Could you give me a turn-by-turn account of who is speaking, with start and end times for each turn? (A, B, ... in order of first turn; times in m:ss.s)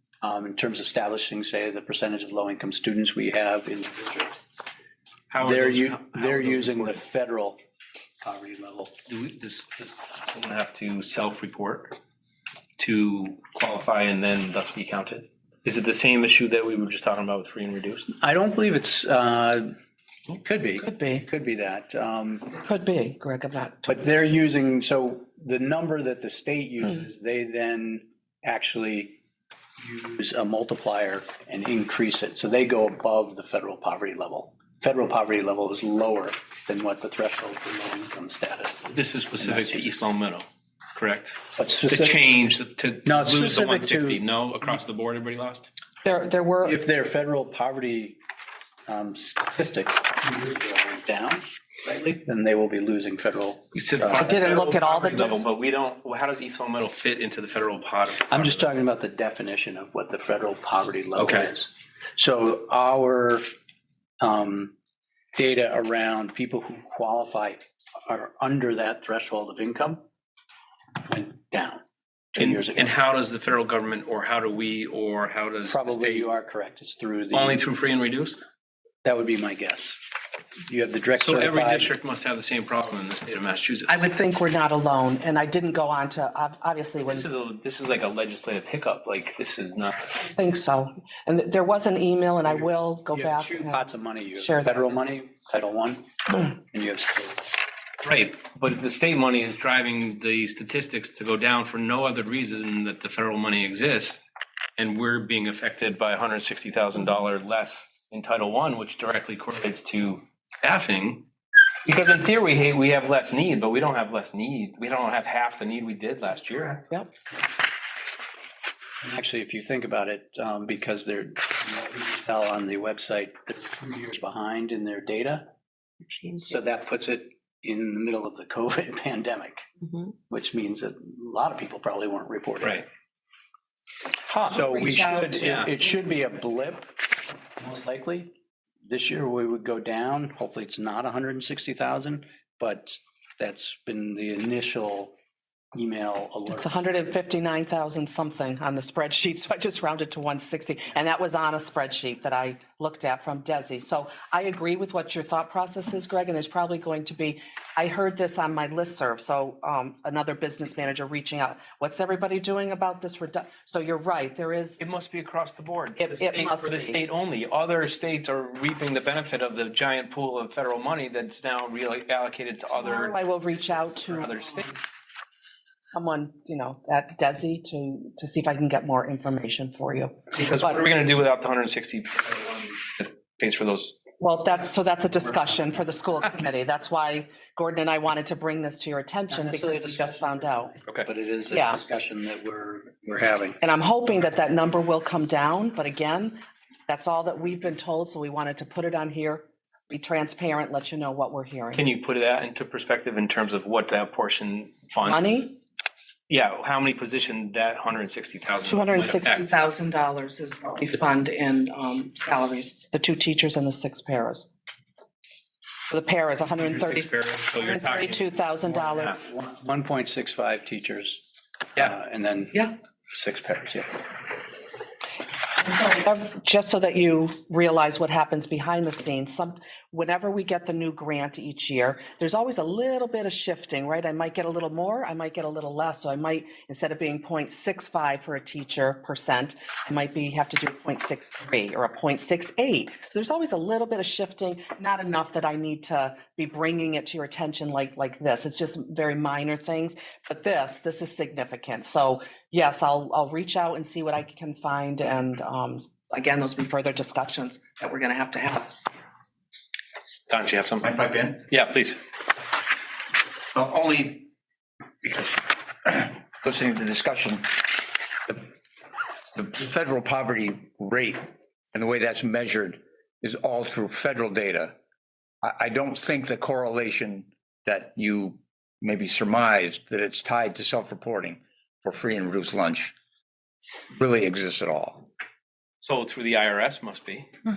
0:00.2-0:04.4 A
0:05.3-0:07.0 B
0:05.4-0:07.6 A
0:08.2-0:08.9 A
0:09.1-0:12.0 B
0:12.8-0:18.1 B
0:18.2-0:19.7 A
0:20.3-0:22.6 A
0:20.8-0:21.2 C
0:22.6-0:24.0 C
0:23.8-0:29.2 A
0:29.8-0:39.9 A
0:38.9-0:45.7 B
0:41.6-0:42.2 A
0:43.0-0:44.2 A
0:46.0-0:46.8 C
0:46.6-0:48.2 A
0:48.9-0:54.5 A
0:53.7-0:58.7 B
0:54.1-0:55.4 C
0:58.3-1:03.5 A
1:01.2-1:01.5 B
1:04.2-1:04.7 A
1:05.3-1:10.0 A
1:11.0-1:11.8 A
1:12.3-1:12.9 A
1:12.4-1:16.3 B
1:15.7-1:17.6 A
1:17.3-1:18.4 B
1:19.0-1:20.0 A
1:20.7-1:22.0 A
1:21.2-1:24.0 B
1:23.9-1:27.2 C
1:27.0-1:30.2 B
1:30.2-1:34.9 C
1:32.5-1:37.6 A
1:38.0-1:44.2 B
1:44.8-1:51.2 B
1:51.8-1:56.8 B
1:59.0-2:05.5 A
2:06.4-2:09.7 A
2:10.2-2:12.8 A
2:14.3-2:14.8 B
2:14.4-2:15.9 C
2:14.4-2:18.3 A
2:15.4-2:15.6 B
2:18.8-2:25.1 A
2:25.7-2:26.8 A
2:26.5-2:44.8 C
2:44.8-2:54.8 B
2:46.0-2:47.0 C
2:52.7-2:54.6 C
2:55.9-3:00.9 C
3:00.3-3:03.9 B
3:04.2-3:10.7 C
3:09.3-3:13.6 A
3:11.5-3:11.8 C
3:13.6-3:16.3 C
3:16.9-3:21.8 C
3:21.7-3:25.3 B
3:25.0-3:25.5 C
3:26.3-3:29.5 B
3:28.6-3:34.5 C
3:35.9-3:39.2 C
3:36.5-3:39.2 B
3:39.1-3:44.1 A
3:45.6-4:18.8 C
4:20.3-4:20.9 B
4:20.8-4:21.4 D
4:21.5-4:22.0 B
4:23.5-4:24.3 D
4:25.0-4:28.5 D
4:29.3-4:34.8 D
4:35.4-4:42.9 D
4:43.9-4:45.1 D
4:45.8-4:47.3 B